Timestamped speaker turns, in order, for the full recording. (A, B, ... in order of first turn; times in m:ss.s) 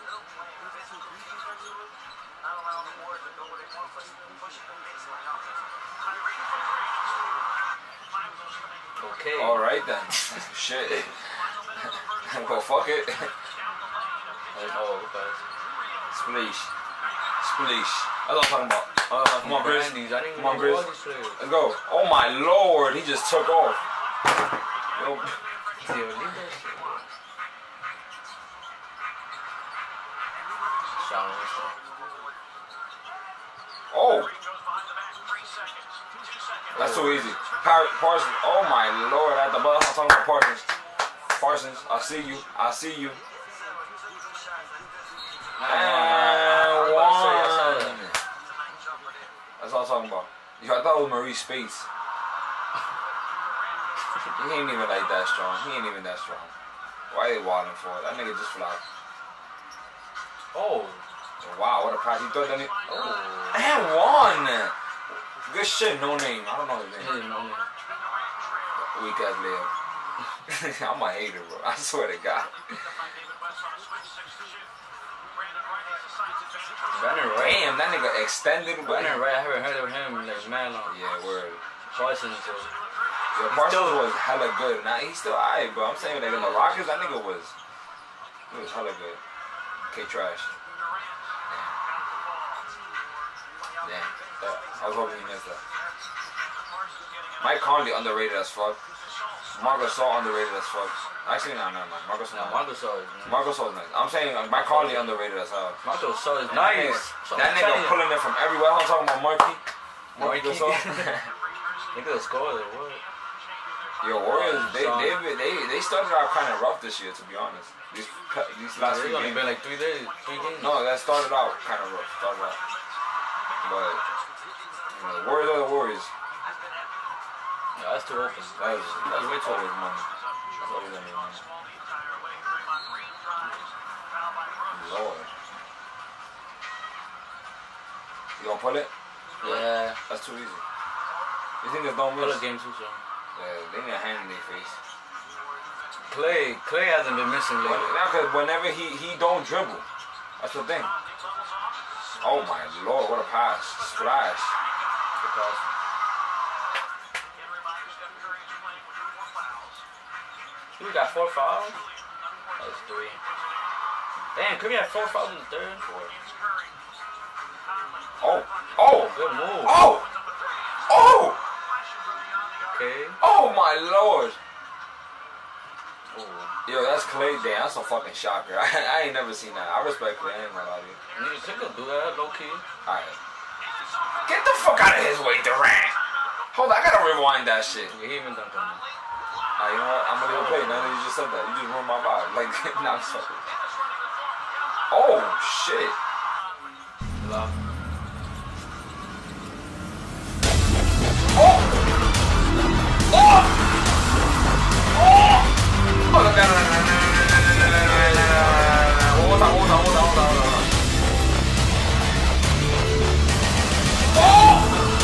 0:09.0-0:09.6 A
0:09.4-0:13.5 B
0:14.5-0:15.4 A
0:16.1-0:16.7 B
0:17.4-0:20.8 B
0:19.1-0:21.4 A
0:21.4-0:23.8 B
0:24.9-0:25.4 B
0:25.8-0:27.0 A
0:31.0-0:31.8 A
0:33.9-0:34.3 B
0:36.7-0:37.3 A
0:36.7-0:40.7 B
0:41.3-0:43.2 B
0:45.6-0:48.0 A
0:45.6-0:48.2 B
0:49.6-0:51.9 B
0:54.3-0:56.5 B
0:57.1-0:58.8 B
1:00.5-1:01.0 A
1:01.4-1:02.7 B
1:02.8-1:03.6 A
1:03.5-1:04.7 B
1:05.5-1:07.1 B
1:07.0-1:07.7 A
1:08.7-1:09.7 B
1:10.5-1:13.0 B
1:16.9-1:17.7 A
1:17.3-1:19.2 B
1:18.8-1:20.9 A
1:20.8-1:21.6 B
1:21.9-1:22.7 A
1:23.3-1:27.5 B
1:23.5-1:24.1 A
1:26.3-1:26.8 A
1:28.5-1:29.2 B
1:29.9-1:30.5 B
1:31.5-1:31.8 B
1:33.8-1:35.6 B
1:37.4-1:38.8 B
1:39.5-1:42.6 B
1:42.3-1:43.4 A
1:43.2-1:45.8 B
1:44.5-1:45.1 A
1:45.8-1:48.0 A
1:46.5-1:49.6 B
1:50.1-1:51.3 B
1:50.2-1:51.2 A
1:51.9-1:53.0 A
1:54.0-1:59.5 B
1:54.2-1:55.2 A
1:58.8-2:00.8 A
2:00.6-2:02.6 B
2:03.6-2:04.0 B
2:04.9-2:06.1 B
2:07.7-2:08.5 A
2:08.6-2:10.1 B
2:09.0-2:09.6 A
2:10.6-2:11.4 B
2:14.7-2:15.3 B
2:18.4-2:18.9 B
2:19.4-2:20.0 A
2:19.4-2:20.6 B
2:21.6-2:22.4 B
2:22.2-2:23.0 A
2:23.4-2:24.8 B
2:26.0-2:28.0 A
2:27.6-2:29.8 B
2:30.4-2:30.9 B
2:32.2-2:34.5 B
2:35.2-2:35.6 A
2:40.8-2:41.8 A
2:42.6-2:43.2 A
2:44.3-2:46.1 A
2:48.2-2:50.0 B
2:48.8-2:49.9 A
2:50.9-2:51.4 B
2:52.6-2:53.2 A
2:53.2-2:54.4 B
2:56.1-2:56.5 A
2:56.6-3:01.0 B
3:01.1-3:02.6 A
3:02.8-3:03.2 B
3:04.2-3:06.0 B
3:06.5-3:07.9 B
3:07.9-3:08.8 A
3:09.6-3:13.3 B
3:10.2-3:11.0 A
3:14.9-3:16.0 B
3:17.2-3:17.6 A
3:21.3-3:21.8 B
3:23.1-3:23.5 B
3:24.9-3:25.5 B
3:26.0-3:30.7 B
3:27.8-3:28.7 A
3:34.1-3:34.8 B